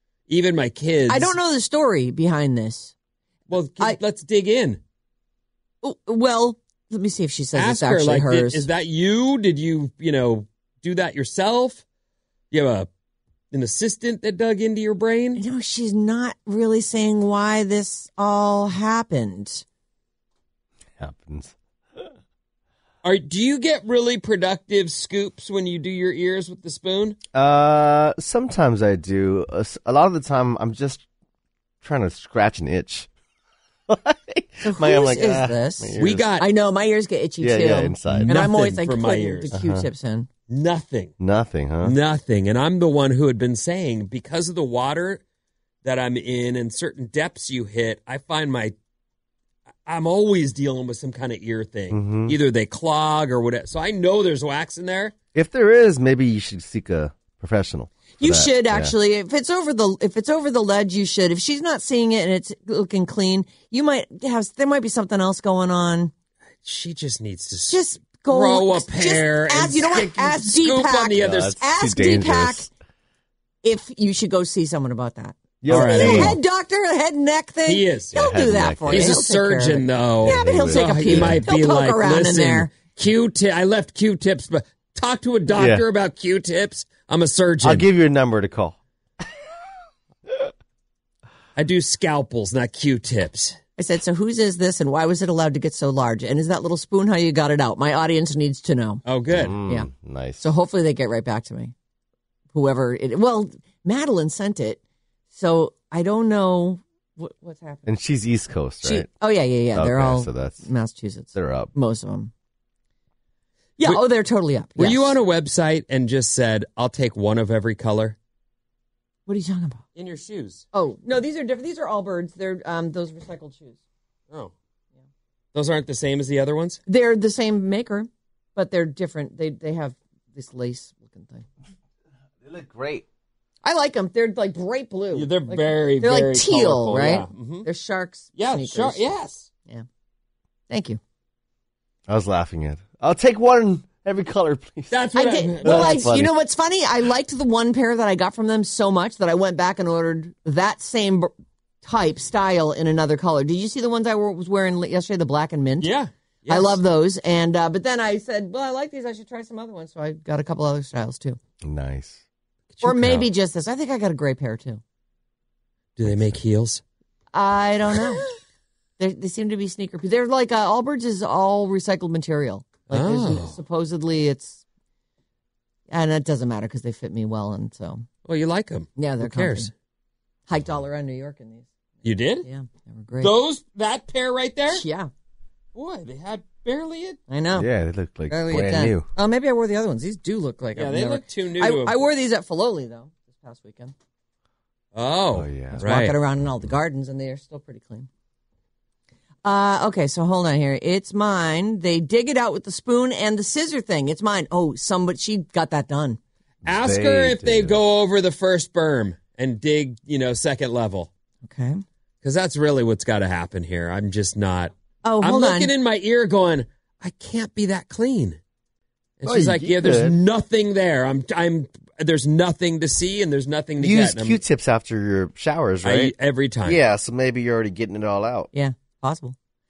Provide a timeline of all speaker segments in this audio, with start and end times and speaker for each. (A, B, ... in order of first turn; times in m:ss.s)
0:00.3-0:01.3 A
0:01.1-0:02.9 B
0:03.5-0:04.8 A
0:05.8-0:08.7 B
0:07.5-0:11.8 A
0:12.5-0:12.9 A
0:13.5-0:15.4 A
0:15.3-0:19.6 B
0:21.0-0:21.5 C
0:23.0-0:27.2 A
0:27.3-0:31.0 C
0:31.8-0:33.1 C
0:33.9-0:36.2 C
0:34.6-0:40.3 B
0:36.0-0:36.5 A
0:37.4-0:38.4 C
0:38.1-0:39.6 A
0:39.5-0:39.9 C
0:40.5-0:41.1 A
0:41.2-0:42.0 C
0:41.8-0:45.2 A
0:45.8-0:48.7 A
0:49.8-0:55.1 A
0:51.9-0:52.4 C
0:55.3-0:58.9 C
0:58.2-1:06.1 B
1:06.6-1:11.5 A
1:07.7-1:12.7 B
1:11.2-1:12.7 C
1:13.6-1:22.7 B
1:15.6-1:16.4 C
1:15.6-1:16.4 A
1:17.6-1:18.1 A
1:18.1-1:19.2 C
1:18.9-1:27.9 A
1:20.2-1:21.5 C
1:25.5-1:25.8 C
1:27.6-1:28.8 C
1:31.6-1:33.6 A
1:33.8-1:39.0 B
1:39.0-1:39.5 A
1:39.3-1:40.4 C
1:39.6-1:39.9 B
1:40.4-1:41.7 B
1:42.5-1:44.8 B
1:45.3-1:47.8 B
1:47.8-1:49.1 C
1:48.8-1:52.3 B
1:49.7-1:50.7 C
1:51.3-1:51.7 C
1:53.8-1:55.2 B
1:54.8-1:58.1 A
1:59.3-1:59.8 B
1:59.9-2:00.6 A
2:00.7-2:03.8 B
2:05.5-2:06.8 A
2:06.9-2:11.4 B
2:12.4-2:13.0 C
2:13.6-2:19.1 B
2:15.1-2:17.7 A
2:18.3-2:19.5 A
2:20.7-2:21.0 B
2:22.1-2:25.0 C
2:24.9-2:26.0 A
2:25.1-2:31.3 B
2:25.6-2:26.4 C
2:31.8-2:35.9 B
2:35.8-2:36.8 A
2:36.5-2:41.4 B
2:41.6-2:42.2 C
2:42.7-2:43.3 A
2:42.8-2:44.8 B
2:46.0-2:46.8 A
2:46.0-2:46.4 C
2:47.3-2:48.3 B
2:49.0-2:54.6 B
2:52.9-2:53.5 A
2:55.9-2:58.0 B
2:58.2-2:59.7 A
2:59.0-2:59.7 B
3:00.5-3:01.7 B
3:02.0-3:02.5 A
3:02.4-3:03.3 B
3:03.2-3:04.8 A
3:04.7-3:05.1 B
3:05.7-3:07.2 A
3:07.3-3:07.7 B
3:07.5-3:09.1 C
3:08.3-3:13.9 B
3:10.7-3:12.1 A
3:14.9-3:16.2 A
3:15.3-3:16.0 C
3:15.7-3:18.1 B
3:19.4-3:26.2 B
3:26.6-3:27.8 C
3:26.6-3:31.1 A
3:31.4-3:31.8 B
3:32.2-3:38.4 A
3:35.0-3:35.7 B
3:39.2-3:44.4 A
3:39.2-3:40.1 C
3:43.8-3:48.5 C
3:45.8-3:46.8 A
3:48.5-3:49.3 B